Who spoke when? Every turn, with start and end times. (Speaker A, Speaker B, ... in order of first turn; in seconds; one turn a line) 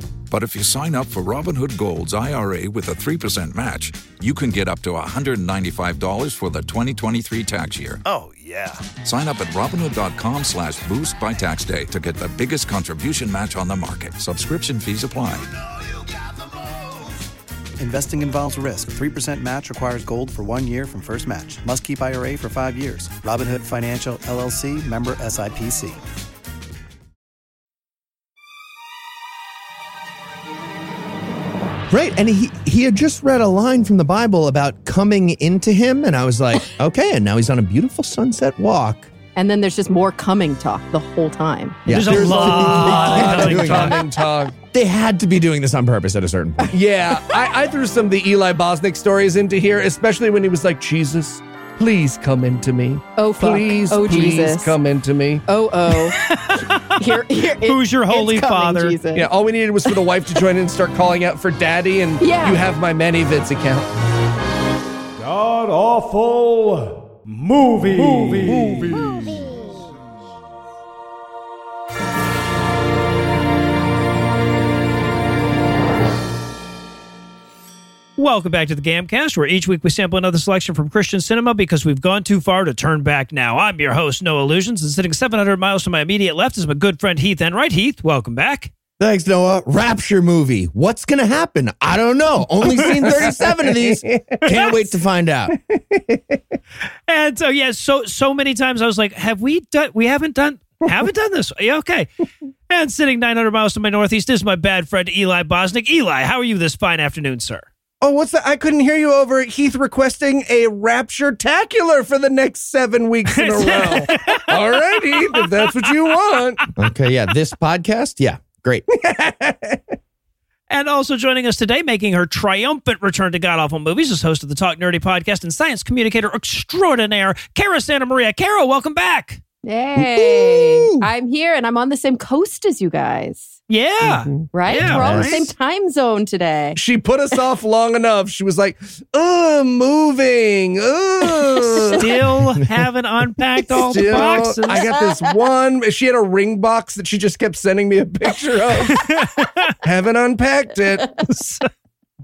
Speaker A: 0.3-8.0
Speaker B: 8.0-8.9
Speaker A: 9.0-15.5
Speaker B: 17.8-26.0
Speaker C: 31.9-39.1
Speaker D: 39.3-41.9
Speaker C: 41.9-44.0
Speaker E: 41.9-44.0
Speaker F: 41.9-44.5
Speaker C: 44.7-46.7
Speaker F: 46.7-55.4
Speaker D: 53.2-54.7
Speaker D: 55.5-59.3
Speaker E: 56.1-59.0
Speaker F: 59.1-63.9
Speaker D: 62.2-62.6
Speaker E: 65.3-66.6
Speaker E: 67.4-68.7
Speaker F: 68.2-68.9
Speaker E: 78.2-88.7
Speaker C: 89.0-95.5
Speaker F: 92.8-94.4
Speaker E: 94.4-94.7
Speaker F: 95.5-96.4
Speaker E: 97.1-102.1
Speaker E: 102.7-107.7
Speaker F: 108.0-116.6
Speaker E: 113.4-115.9
Speaker C: 116.8-118.8
Speaker F: 118.9-119.8
Speaker E: 120.7-129.4
Speaker D: 129.6-133.5
Speaker C: 130.0-131.1
Speaker E: 133.7-135.5
Speaker F: 134.0-134.3
Speaker D: 134.5-136.8
Speaker C: 134.8-135.5
Speaker F: 136.8-142.1
Speaker E: 141.9-144.9
Speaker F: 143.7-149.1
Speaker D: 143.9-145.3
Speaker E: 148.9-149.7
Speaker F: 149.8-151.2
Speaker E: 151.2-151.7